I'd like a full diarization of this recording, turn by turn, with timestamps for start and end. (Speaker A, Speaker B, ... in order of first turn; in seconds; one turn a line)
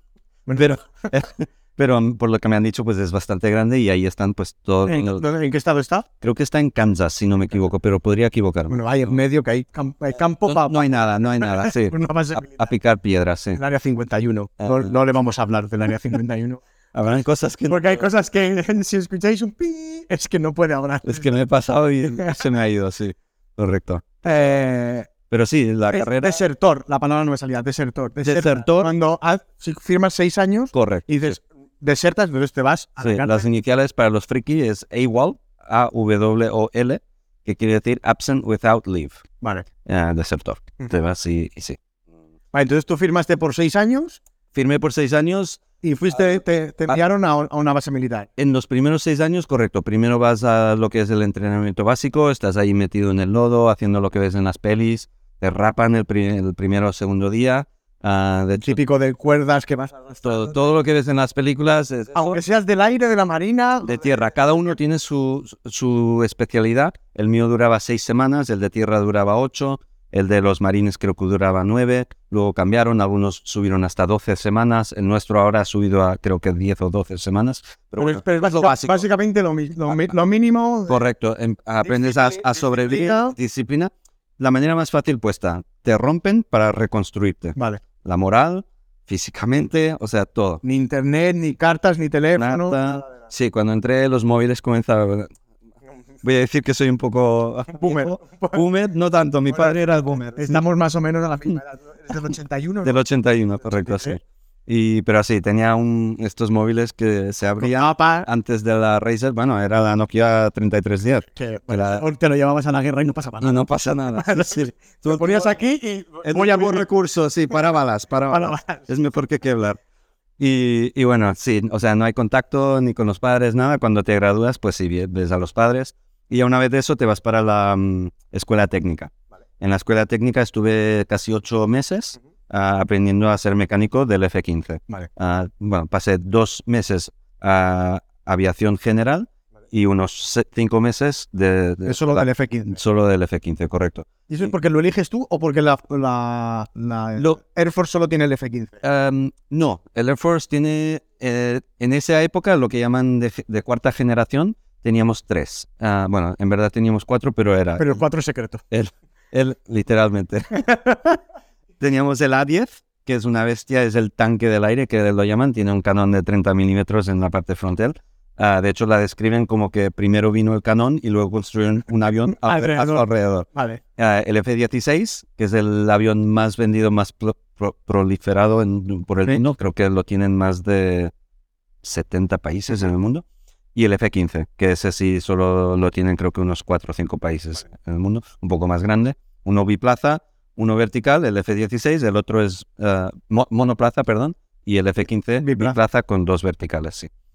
Speaker A: 0.5-0.8
Speaker B: 0.6-5.2
Speaker A: 4.8-6.1
Speaker B: 6.2-9.2
Speaker A: 8.7-12.7
Speaker B: 10.4-13.6
Speaker A: 13.6-16.6
Speaker B: 14.6-14.9
Speaker B: 16.9-18.1
Speaker A: 17.7-21.3
Speaker B: 21.1-24.1
Speaker A: 22.1-22.4
Speaker A: 24.2-25.1
Speaker B: 25.3-26.4
Speaker A: 25.9-33.5
Speaker B: 28.2-28.9
Speaker B: 30.7-31.3
Speaker B: 33.0-39.2
Speaker A: 39.4-39.7
Speaker B: 39.9-41.8
Speaker A: 42.5-44.2
Speaker B: 44.5-45.6
Speaker A: 45.8-48.3
Speaker B: 48.4-58.8
Speaker A: 58.6-60.6
Speaker B: 60.2-62.4
Speaker A: 62.1-64.1
Speaker B: 63.8-79.1
Speaker A: 78.0-81.0
Speaker B: 80.9-90.6
Speaker A: 81.8-83.3
Speaker A: 87.6-87.8
Speaker A: 90.6-93.2
Speaker B: 92.4-95.3
Speaker B: 96.2-100.6
Speaker A: 97.7-98.6
Speaker A: 100.4-103.0
Speaker B: 102.8-112.0
Speaker A: 103.7-104.2
Speaker A: 107.6-108.3
Speaker A: 111.3-113.6
Speaker B: 113.4-115.5
Speaker A: 114.1-116.9
Speaker B: 116.2-119.8
Speaker A: 118.3-118.8
Speaker B: 120.4-144.1
Speaker A: 141.9-142.8
Speaker A: 144.3-148.8
Speaker B: 148.8-157.9
Speaker A: 157.8-158.6
Speaker B: 158.7-160.6
Speaker A: 160.7-161.2
Speaker B: 161.8-181.1
Speaker A: 172.3-173.8
Speaker B: 181.8-183.2
Speaker B: 183.8-197.1
Speaker A: 195.4-195.8